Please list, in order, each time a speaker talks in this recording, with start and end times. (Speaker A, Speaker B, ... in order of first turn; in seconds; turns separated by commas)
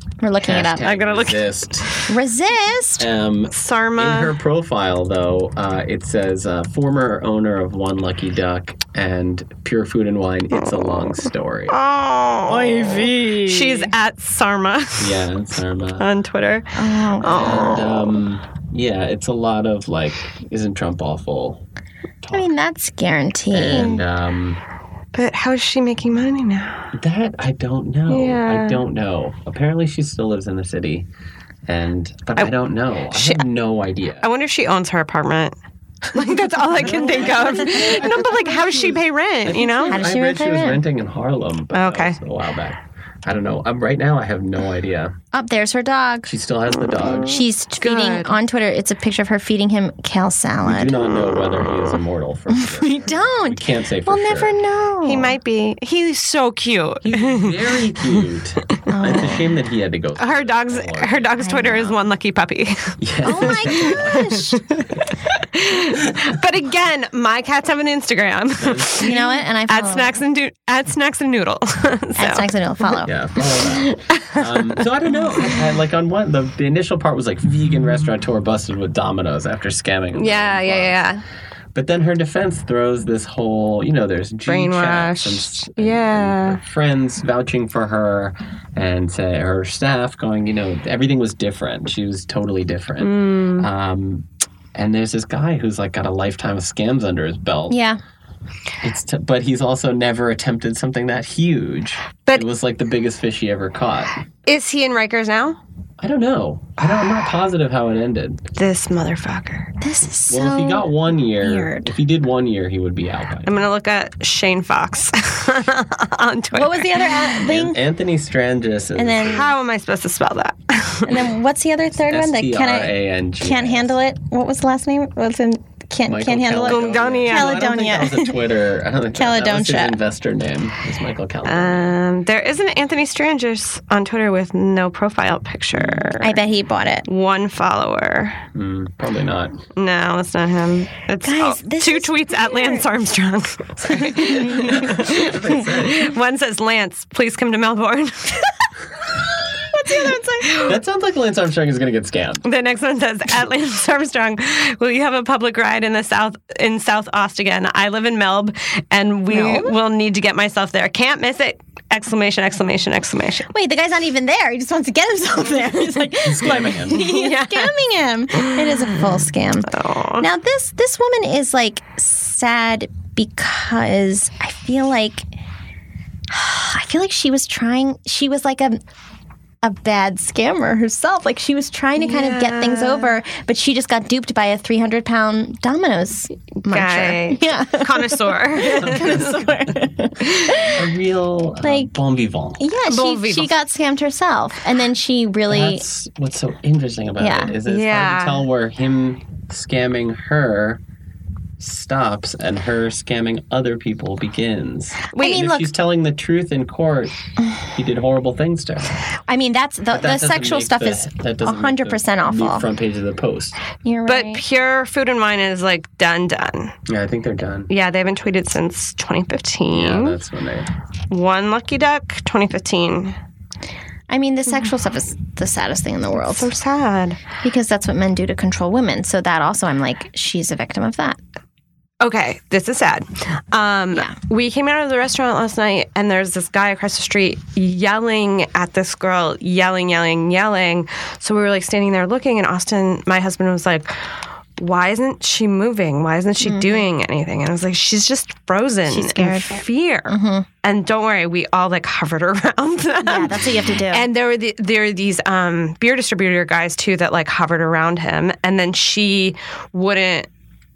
Speaker A: 0.2-0.8, Speaker B: 0.4-1.9, Speaker C: 0.8-2.0, Speaker A: 2.1-3.0, Speaker B: 3.0-11.8, Speaker C: 3.5-4.3, Speaker C: 11.7-15.2, Speaker B: 12.5-13.6, Speaker A: 13.3-13.9, Speaker B: 15.0-16.1, Speaker C: 16.0-18.0, Speaker A: 16.8-17.8, Speaker B: 17.2-21.6, Speaker B: 22.2-22.5, Speaker A: 22.3-24.0, Speaker B: 23.5-24.6, Speaker C: 25.1-26.9, Speaker B: 26.9-31.1, Speaker C: 28.1-28.8, Speaker B: 31.6-34.3, Speaker C: 33.1-33.4, Speaker C: 34.2-35.5, Speaker C: 36.1-40.0, Speaker B: 36.7-45.1, Speaker A: 37.1-38.1, Speaker A: 39.9-40.8, Speaker C: 41.7-42.1, Speaker A: 45.3-46.3, Speaker B: 46.2-47.4, Speaker C: 46.9-48.4, Speaker A: 47.3-50.9, Speaker B: 50.6-54.6, Speaker A: 52.5-55.4, Speaker C: 55.0-57.6, Speaker B: 57.0-61.9, Speaker A: 58.9-59.5, Speaker C: 60.2-64.0, Speaker A: 61.4-61.9, Speaker B: 63.0-64.3, Speaker A: 63.2-64.6, Speaker C: 65.5-73.0, Speaker B: 68.6-69.1, Speaker A: 69.0-70.2, Speaker A: 72.2-73.1, Speaker B: 73.0-81.1, Speaker C: 73.6-74.7, Speaker C: 80.2-81.2, Speaker B: 81.7-97.8, Speaker C: 84.5-86.6, Speaker C: 93.0-93.7, Speaker A: 97.7-98.0, Speaker B: 98.8-104.2, Speaker C: 104.5-105.6, Speaker B: 106.0-108.4, Speaker C: 108.5-109.7, Speaker A: 109.8-111.9, Speaker B: 110.3-113.6, Speaker C: 113.4-117.4, Speaker A: 116.5-117.8, Speaker B: 117.4-119.5, Speaker A: 119.0-119.5, Speaker C: 119.3-121.3, Speaker A: 121.0-128.3, Speaker B: 122.1-123.9, Speaker B: 126.0-131.9, Speaker C: 126.6-127.8, Speaker A: 129.1-129.9, Speaker C: 131.4-136.4, Speaker A: 136.2-137.1, Speaker C: 137.1-138.4, Speaker B: 138.5-139.6, Speaker C: 139.8-148.5, Speaker A: 141.2-142.8, Speaker A: 143.9-145.0, Speaker B: 144.6-146.1, Speaker A: 149.8-150.7, Speaker C: 149.9-150.7, Speaker B: 150.6-152.4, Speaker C: 152.4-163.5, Speaker A: 159.3-159.7, Speaker A: 163.5-175.2, Speaker B: 166.2-167.0, Speaker C: 166.4-167.7, Speaker C: 168.6-169.2, Speaker C: 169.7-170.3, Speaker A: 176.3-178.8, Speaker A: 179.6-190.8, Speaker C: 182.0-183.1, Speaker C: 186.6-189.3, Speaker B: 188.9-189.7, Speaker B: 190.7-192.6, Speaker A: 191.6-191.9, Speaker A: 192.6-195.8, Speaker C: 192.9-193.5, Speaker B: 195.5-200.8, Speaker A: 197.2-197.6, Speaker C: 197.7-198.4, Speaker B: 201.6-207.2, Speaker C: 205.1-205.6, Speaker A: 205.2-205.7, Speaker B: 207.7-209.1, Speaker A: 209.3-212.6, Speaker B: 209.9-213.6, Speaker A: 213.8-214.4, Speaker C: 214.1-216.7, Speaker B: 216.9-217.7, Speaker C: 217.7-220.2, Speaker B: 219.7-220.7, Speaker C: 221.1-223.1, Speaker A: 224.1-226.5, Speaker C: 226.2-227.2, Speaker A: 227.4-231.2, Speaker C: 232.0-243.9, Speaker C: 244.6-260.3, Speaker A: 246.4-246.9, Speaker A: 248.9-250.4, Speaker A: 253.0-254.1